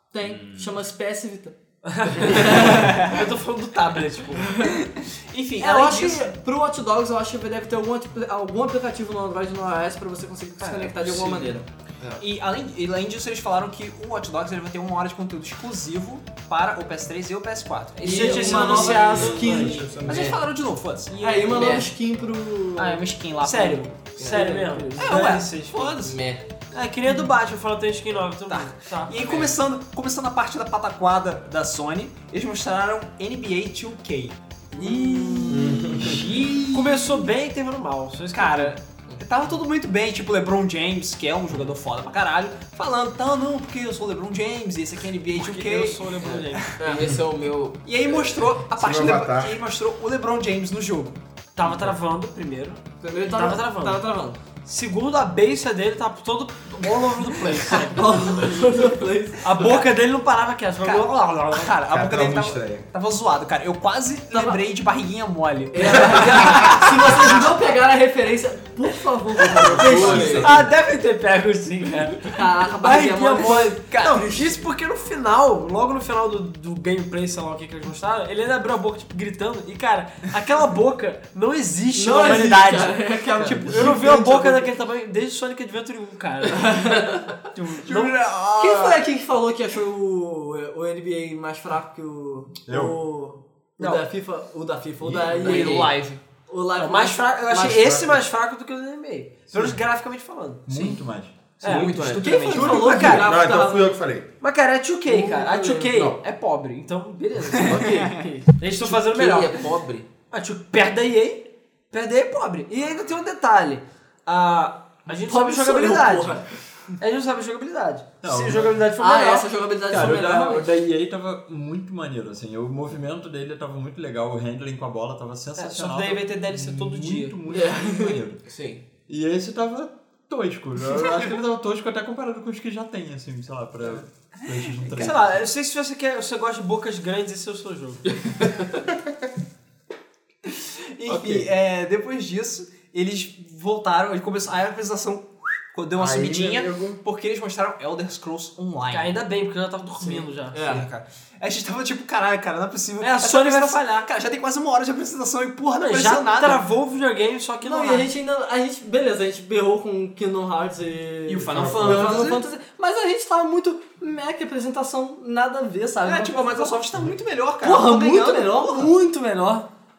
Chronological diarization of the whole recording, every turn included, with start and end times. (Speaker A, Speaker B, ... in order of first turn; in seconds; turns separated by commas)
Speaker A: 0.1-1.6, Speaker B: 0.3-0.6, Speaker C: 1.8-4.5, Speaker A: 2.2-3.1, Speaker B: 2.7-3.1, Speaker A: 4.4-4.8, Speaker B: 4.8-6.3, Speaker A: 5.6-11.7, Speaker D: 10.8-12.2, Speaker B: 12.2-18.3, Speaker A: 18.0-20.0, Speaker D: 18.0-19.5, Speaker C: 18.0-19.9, Speaker E: 18.8-20.4, Speaker D: 20.1-20.4, Speaker B: 20.1-21.3, Speaker A: 21.1-23.0, Speaker C: 21.2-21.6, Speaker D: 21.5-21.9, Speaker B: 22.8-23.9, Speaker C: 23.4-25.9, Speaker D: 24.1-26.5, Speaker B: 25.0-26.2, Speaker C: 26.7-29.6, Speaker B: 28.5-34.4, Speaker C: 34.8-38.8, Speaker A: 34.9-35.6, Speaker E: 35.5-36.4, Speaker B: 35.8-37.1, Speaker B: 38.4-47.0, Speaker C: 45.3-46.7, Speaker D: 46.2-48.5, Speaker B: 47.8-51.2, Speaker E: 48.8-49.6, Speaker C: 51.6-54.0, Speaker A: 53.0-54.4, Speaker C: 54.6-61.7, Speaker A: 57.8-59.8, Speaker B: 60.8-67.5, Speaker E: 61.9-62.9, Speaker A: 64.3-64.6, Speaker A: 65.7-70.5, Speaker E: 69.4-70.6, Speaker D: 69.6-70.6, Speaker C: 69.8-89.0, Speaker A: 72.3-74.6, Speaker B: 73.5-74.2, Speaker A: 81.9-84.7, Speaker D: 83.4-83.8, Speaker A: 86.5-87.3, Speaker A: 88.5-98.1, Speaker F: 92.7-93.0, Speaker C: 93.8-94.1, Speaker E: 95.0-95.4, Speaker D: 95.3-96.2, Speaker C: 95.4-95.9, Speaker C: 96.8-101.0, Speaker F: 100.7-101.6, Speaker C: 101.6-103.4, Speaker D: 101.6-103.0, Speaker A: 101.7-104.0, Speaker E: 103.0-104.3, Speaker C: 104.4-109.7, Speaker A: 105.1-106.0, Speaker D: 107.5-108.2, Speaker B: 107.5-108.3, Speaker D: 108.8-110.1, Speaker C: 110.3-116.4, Speaker A: 115.1-116.5, Speaker C: 117.0-120.4, Speaker F: 118.2-118.8, Speaker A: 119.0-120.7, Speaker F: 119.9-128.4, Speaker C: 125.6-127.4, Speaker A: 127.5-128.2, Speaker D: 128.4-128.8, Speaker F: 129.1-135.5, Speaker C: 134.9-138.0, Speaker D: 138.2-138.6, Speaker B: 140.5-149.2, Speaker E: 141.1-141.4, Speaker E: 146.0-147.0, Speaker C: 148.9-150.6, Speaker B: 150.1-156.6, Speaker A: 150.5-150.9, Speaker C: 153.0-154.1, Speaker C: 155.8-158.1, Speaker A: 157.6-166.8, Speaker B: 161.3-162.4, Speaker E: 161.5-162.4, Speaker B: 166.0-168.9, Speaker A: 167.6-169.7